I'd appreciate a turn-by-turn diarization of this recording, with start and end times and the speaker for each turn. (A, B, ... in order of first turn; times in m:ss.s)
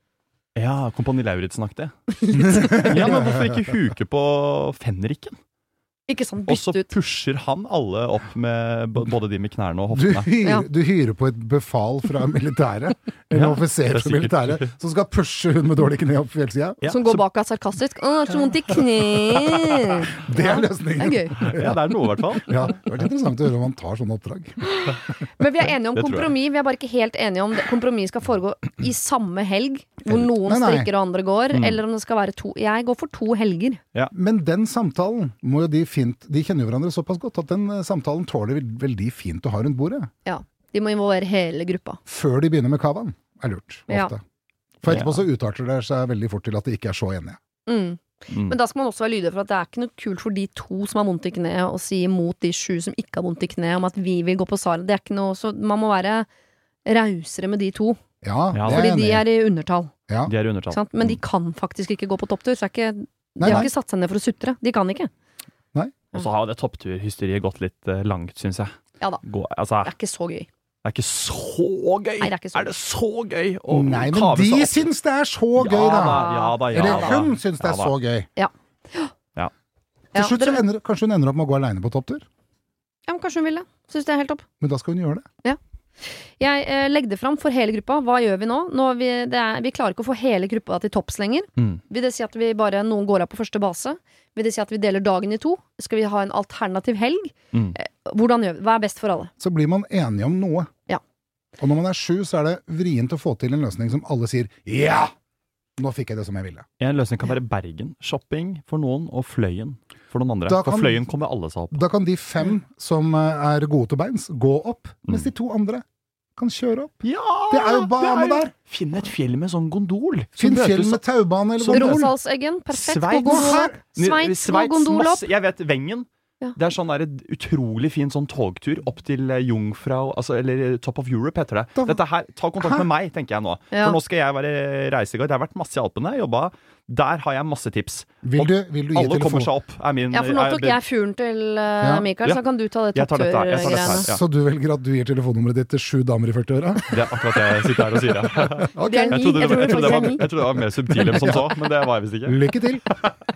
0:00.6-0:05.4 A
0:02.3-0:03.1 B
0:02.4-0:03.6 C
0:06.1-0:06.9 B
0:06.5-0:10.3 A
0:09.9-0:16.8 C
0:13.3-0:14.7 A
0:16.8-0:17.2 A
0:16.9-0:21.4 B
0:19.4-0:20.0 A
0:20.2-0:21.8 C
0:21.4-0:22.8 A
0:22.3-0:24.8 C
0:24.7-0:33.8 B
0:25.9-0:26.4 A
0:30.4-0:30.9 C
0:31.5-0:31.8 A
0:34.1-0:40.1 C
0:40.2-0:42.0 B
0:42.1-0:44.2 C
0:44.8-0:47.4 C
0:44.9-0:45.2 A
0:47.7-0:56.3 B
0:48.3-0:48.6 A
0:56.9-0:58.0 B
0:58.2-0:59.2 C
0:58.5-0:58.9 A
0:58.6-0:59.9 B
1:00.2-1:01.2 A
1:00.7-1:05.1 B
1:03.4-1:03.7 C
1:06.1-1:09.9 A
1:09.8-1:10.5 B
1:10.8-1:14.9 A
1:12.2-1:12.7 B
1:13.7-1:18.3 C
1:15.6-1:17.9 A
1:15.8-1:17.2 B
1:18.4-1:19.1 B
1:20.1-1:20.6 B
1:20.1-1:22.2 C
1:23.1-1:24.4 B
1:24.6-1:25.2 C
1:25.4-1:39.3 B
1:39.4-1:40.7 C
1:41.6-1:45.1 C
1:45.8-1:46.6 C
1:46.8-1:51.8 A
1:50.5-1:51.0 C
1:51.7-1:55.8 C
1:56.4-1:56.9 C
1:57.0-2:01.0 A
1:57.5-1:58.5 C
2:00.4-2:02.1 C
2:01.6-2:02.1 A
2:01.7-2:05.2 B
2:02.7-2:20.8 A
2:03.2-2:03.8 C
2:12.6-2:12.9 C
2:13.7-2:14.0 B
2:18.2-2:19.5 C
2:20.1-2:24.1 B
2:21.8-2:22.1 C
2:22.9-2:24.2 A
2:23.6-2:31.5 C
2:26.9-2:33.2 A
2:28.8-2:30.2 B
2:32.2-2:32.8 C